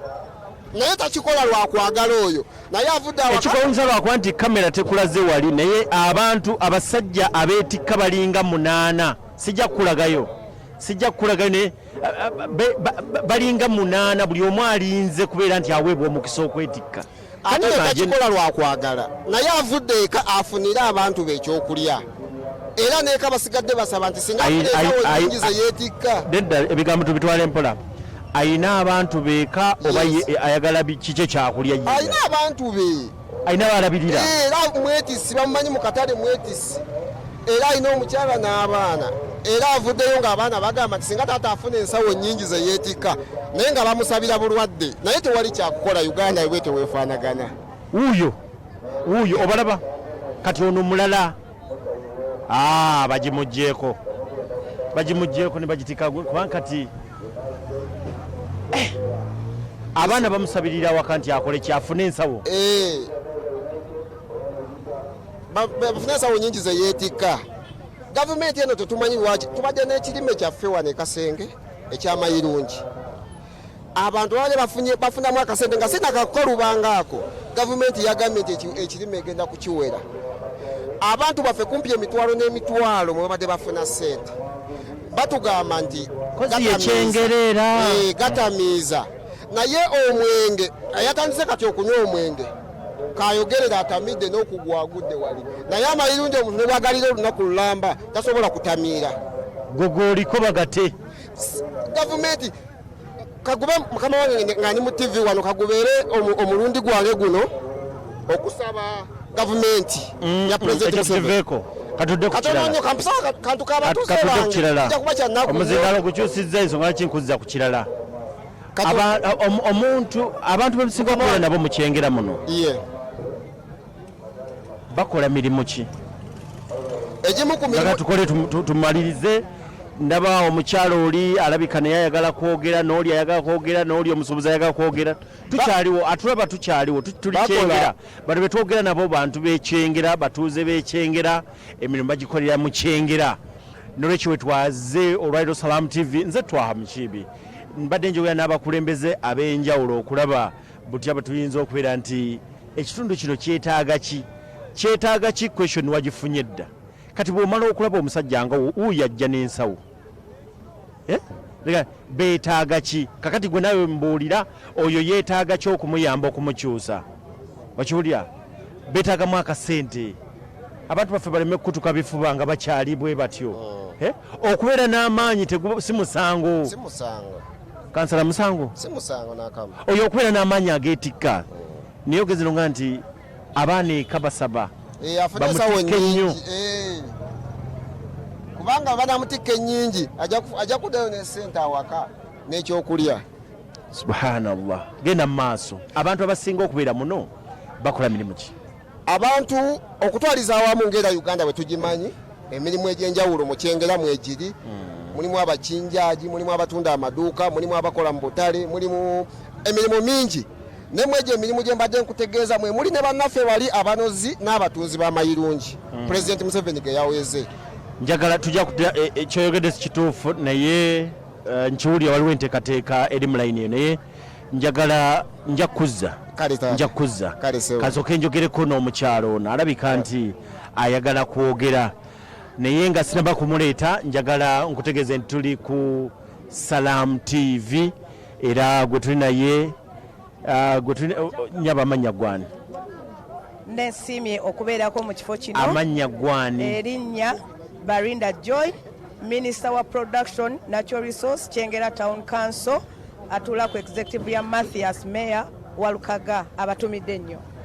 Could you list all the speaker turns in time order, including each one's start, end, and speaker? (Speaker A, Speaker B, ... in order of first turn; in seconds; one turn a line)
Speaker A: 0.7-3.6
Speaker B: 3.3-18.1
Speaker A: 17.4-22.0
Speaker A: 22.8-26.3
Speaker B: 24.4-25.5
Speaker B: 26.3-27.8
Speaker B: 28.3-32.2
Speaker A: 29.8-30.2
Speaker A: 31.9-33.1
Speaker B: 33.5-34.3
Speaker A: 34.1-36.8
Speaker A: 37.5-47.5
Speaker B: 47.9-48.4
Speaker B: 49.0-49.8
Speaker B: 50.4-51.4
Speaker B: 52.5-54.0
Speaker B: 54.9-56.9
Speaker B: 60.0-62.5
Speaker A: 60.0-60.3
Speaker A: 62.5-63.1
Speaker A: 65.5-67.4
Speaker A: 68.1-72.8
Speaker A: 74.0-80.0
Speaker A: 81.0-84.3
Speaker A: 85.1-92.5
Speaker B: 86.4-88.1
Speaker A: 93.2-99.2
Speaker B: 99.7-100.9
Speaker A: 101.4-102.5
Speaker A: 103.4-107.5
Speaker A: 108.3-111.4
Speaker B: 110.2-112.8
Speaker A: 112.3-116.0
Speaker B: 113.8-117.9
Speaker A: 118.8-119.1
Speaker B: 118.8-122.4
Speaker A: 120.9-121.5
Speaker A: 122.5-122.8
Speaker B: 124.9-125.9
Speaker A: 127.2-128.0
Speaker B: 127.7-129.4
Speaker B: 130.0-143.4
Speaker A: 137.3-137.9
Speaker B: 144.0-159.8
Speaker B: 161.1-167.1
Speaker B: 167.8-168.3
Speaker B: 168.9-170.2
Speaker B: 170.9-176.7
Speaker A: 173.5-174.0
Speaker A: 176.7-177.4
Speaker B: 177.9-178.7
Speaker A: 178.8-179.8
Speaker B: 179.8-181.5
Speaker B: 182.1-184.7
Speaker A: 185.0-187.1
Speaker B: 185.4-186.4
Speaker A: 188.6-193.2
Speaker B: 193.9-197.3
Speaker B: 197.8-198.5
Speaker A: 199.1-204.6
Speaker A: 205.1-217.5
Speaker B: 215.9-216.3
Speaker B: 218.0-224.0
Speaker B: 224.5-226.2
Speaker A: 226.3-228.0
Speaker B: 226.7-231.9
Speaker B: 232.6-239.8
Speaker B: 240.4-242.5
Speaker C: 243.7-245.8
Speaker B: 245.5-246.8
Speaker C: 246.6-257.4